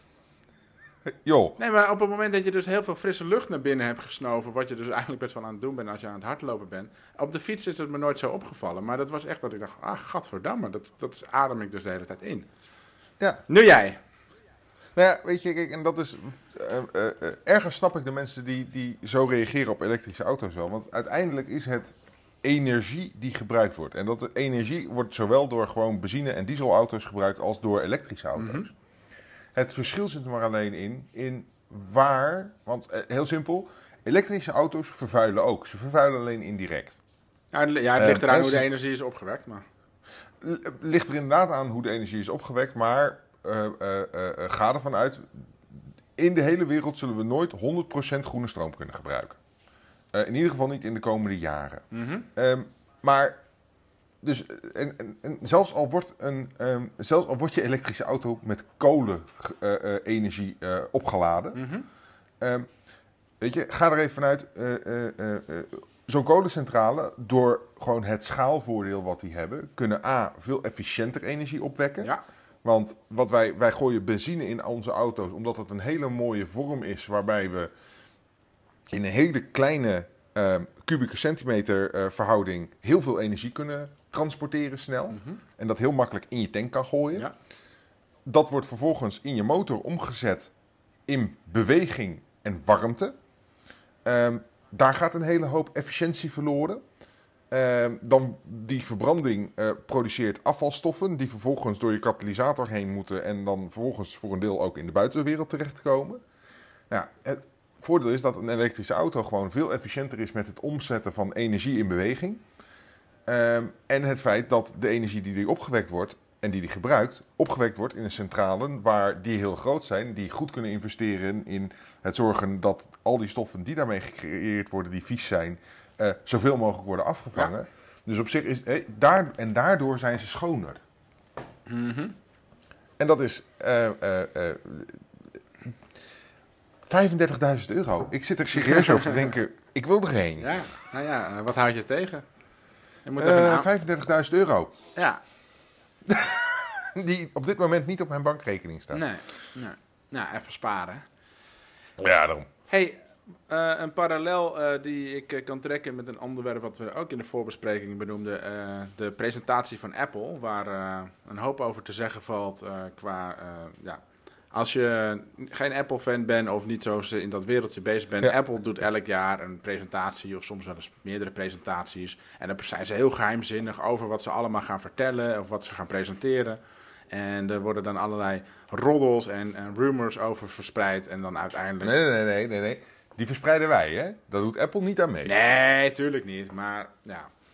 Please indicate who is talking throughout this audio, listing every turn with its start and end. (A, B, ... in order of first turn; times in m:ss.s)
0:01.1-0:01.6 A
0:01.6-0:12.5 B
0:13.5-0:14.0 B
0:15.0-0:28.7 A
0:28.4-0:28.6 B
0:29.5-0:37.0 A
0:37.5-0:39.6 B
0:38.0-0:38.6 A
0:40.4-0:45.5 A
0:46.2-0:49.4 A
0:50.1-0:53.4 A
0:51.9-0:52.3 B
0:54.2-1:01.6 A
1:01.5-1:01.9 B
1:02.4-1:02.7 A
1:03.4-1:12.1 A
1:12.6-1:17.7 A
1:18.9-1:27.3 A
1:25.1-1:25.4 B
1:28.2-1:30.5 A
1:31.1-1:33.1 A
1:34.0-1:36.8 A
1:37.5-1:46.2 A
1:46.9-1:52.4 A
1:53.3-2:10.8 A
2:11.7-2:12.2 B
2:13.0-2:15.0 A
2:16.9-2:20.5 A
2:18.6-2:19.2 B
2:20.4-2:22.2 B
2:23.0-2:23.7 B
2:23.2-2:24.7 A
2:26.1-2:29.0 A
2:28.9-2:31.0 B
2:32.0-2:32.5 A
2:32.7-2:56.6 B
2:57.1-3:02.0 B
3:01.8-3:05.3 A
3:05.2-3:07.3 B